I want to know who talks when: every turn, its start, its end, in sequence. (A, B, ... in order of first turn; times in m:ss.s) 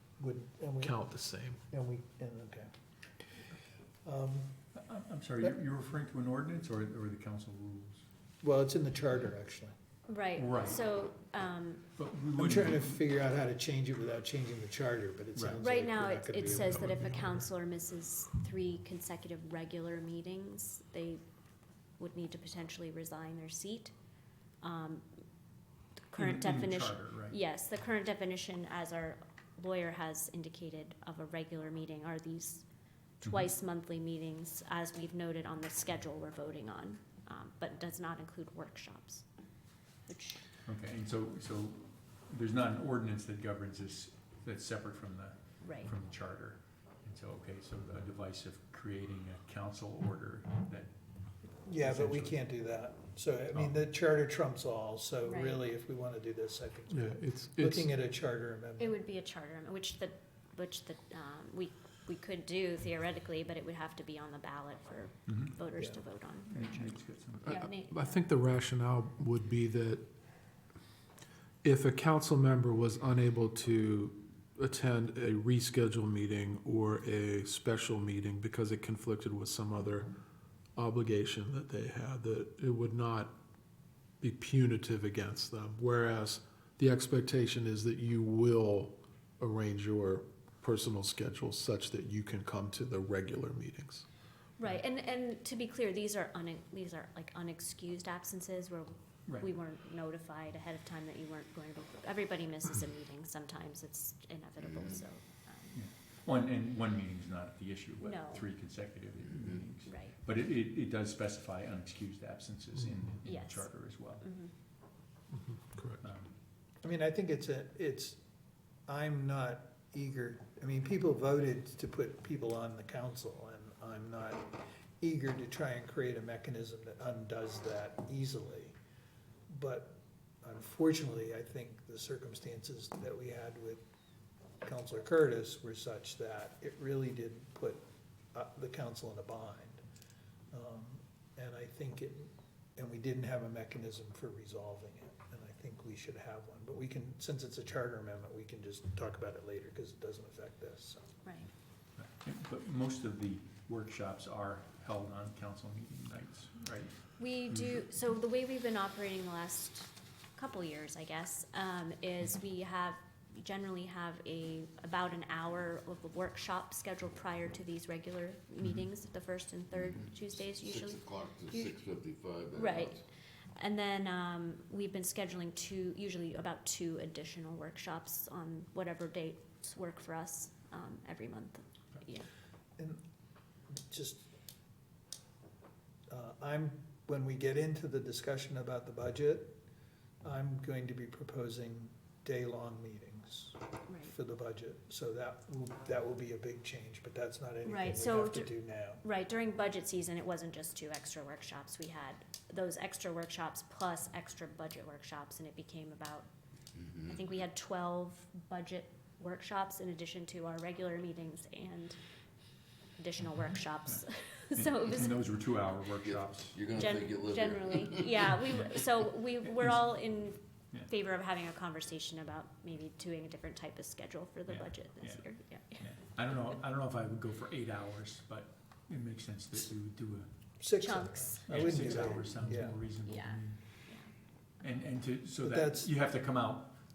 0:00.2-0:01.0 A
0:00.8-0:01.6 B
0:01.7-0:02.7 A
0:04.0-0:04.5 A
0:04.8-0:08.0 C
0:08.4-0:09.7 A
0:10.1-0:11.9 D
0:10.4-0:10.8 C
0:12.0-0:13.0 C
0:12.4-0:17.0 A
0:15.6-0:21.2 D
0:16.5-0:17.5 B
0:22.0-0:23.9 D
0:24.6-0:25.0 D
0:26.1-0:32.6 D
0:26.2-0:27.4 C
0:33.2-0:39.3 D
0:40.1-0:40.5 D
0:40.6-0:50.9 C
0:45.6-0:45.9 D
0:51.5-0:52.4 C
0:51.7-0:59.0 A
0:55.2-0:55.6 D
0:56.9-0:57.9 B
0:58.8-1:08.2 D
1:05.3-1:05.5 C
1:06.5-1:07.6 C
1:07.5-1:10.0 B
1:11.6-1:20.1 B
1:20.8-1:23.4 B
1:24.2-1:34.1 B
1:34.6-1:45.8 D
1:44.6-1:45.0 E
1:45.7-1:54.3 C
1:48.0-1:48.5 D
1:49.8-1:50.2 D
1:53.2-1:53.7 D
1:54.2-1:54.5 D
1:55.3-1:56.0 B
1:56.0-1:56.3 C
1:56.8-1:58.2 A
1:58.9-2:08.8 A
2:09.5-2:13.8 A
2:14.6-2:17.8 A
2:18.3-2:19.8 A
2:20.5-2:31.1 A
2:31.2-2:31.5 D
2:32.0-2:37.8 C
2:37.2-2:51.8 D
2:49.8-2:53.0 E
2:52.6-2:53.0 D
2:53.6-3:02.3 D
3:03.7-3:04.2 A
3:06.1-3:09.6 A
3:10.2-3:19.0 A
3:13.9-3:14.1 D
3:17.6-3:18.5 D
3:19.0-3:26.3 D
3:26.8-3:27.2 E
3:27.1-3:32.0 D
3:33.0-3:35.2 D
3:33.9-3:36.7 C
3:36.0-3:38.6 E
3:36.8-3:45.9 D
3:44.5-3:50.3 C
3:50.6-3:52.8 A
3:50.8-3:51.9 D
3:51.5-3:53.7 C
3:53.1-3:54.1 D
3:54.6-3:56.8 C
3:55.4-3:55.9 A